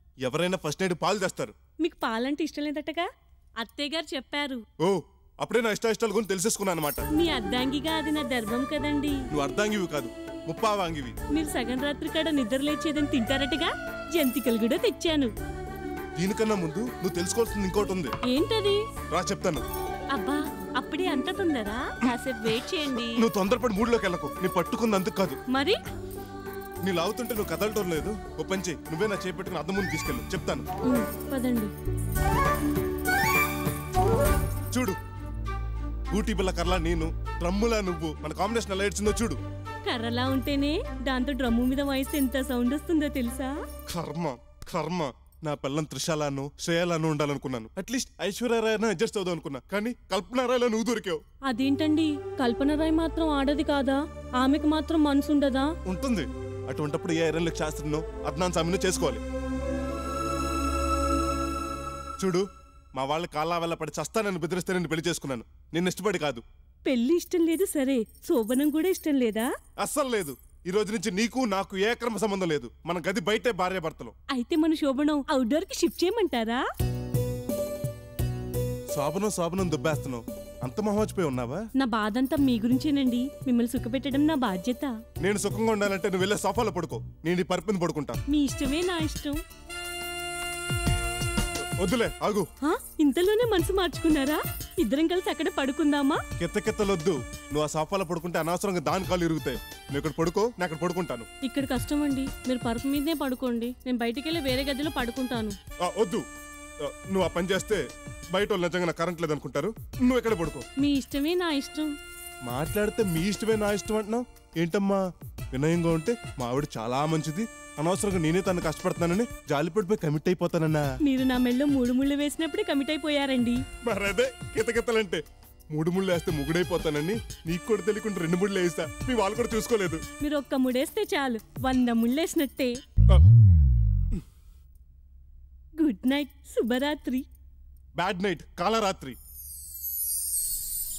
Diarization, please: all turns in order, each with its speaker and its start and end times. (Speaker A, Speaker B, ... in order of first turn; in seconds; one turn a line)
Speaker A: 0.2-1.5
Speaker B: 1.8-3.1
Speaker B: 3.6-4.6
Speaker A: 4.8-7.0
Speaker B: 7.1-9.2
Speaker A: 9.3-11.1
Speaker B: 11.3-15.3
Speaker A: 16.1-18.1
Speaker B: 18.3-18.8
Speaker A: 19.1-19.6
Speaker B: 20.1-23.2
Speaker A: 23.2-25.4
Speaker B: 25.5-25.8
Speaker A: 26.8-30.7
Speaker B: 30.8-31.7
Speaker A: 34.7-35.0
Speaker A: 36.1-39.4
Speaker B: 39.8-43.5
Speaker A: 43.9-51.2
Speaker B: 51.5-55.7
Speaker A: 55.9-59.2
Speaker A: 62.2-62.4
Speaker A: 63.0-66.4
Speaker B: 66.8-69.5
Speaker A: 69.8-74.1
Speaker B: 74.3-76.6
Speaker A: 78.9-81.6
Speaker B: 81.8-84.9
Speaker A: 85.2-88.2
Speaker B: 88.3-89.4
Speaker A: 91.8-92.5
Speaker B: 92.6-96.2
Speaker A: 96.4-101.3
Speaker B: 101.4-105.6
Speaker A: 105.8-106.2
Speaker A: 106.8-107.8
Speaker A: 108.3-110.6
Speaker B: 110.8-111.9
Speaker A: 112.5-115.0
Speaker A: 115.5-120.8
Speaker B: 121.0-123.6
Speaker A: 123.8-130.0
Speaker B: 130.2-132.7
Speaker B: 135.8-137.2
Speaker A: 137.9-139.2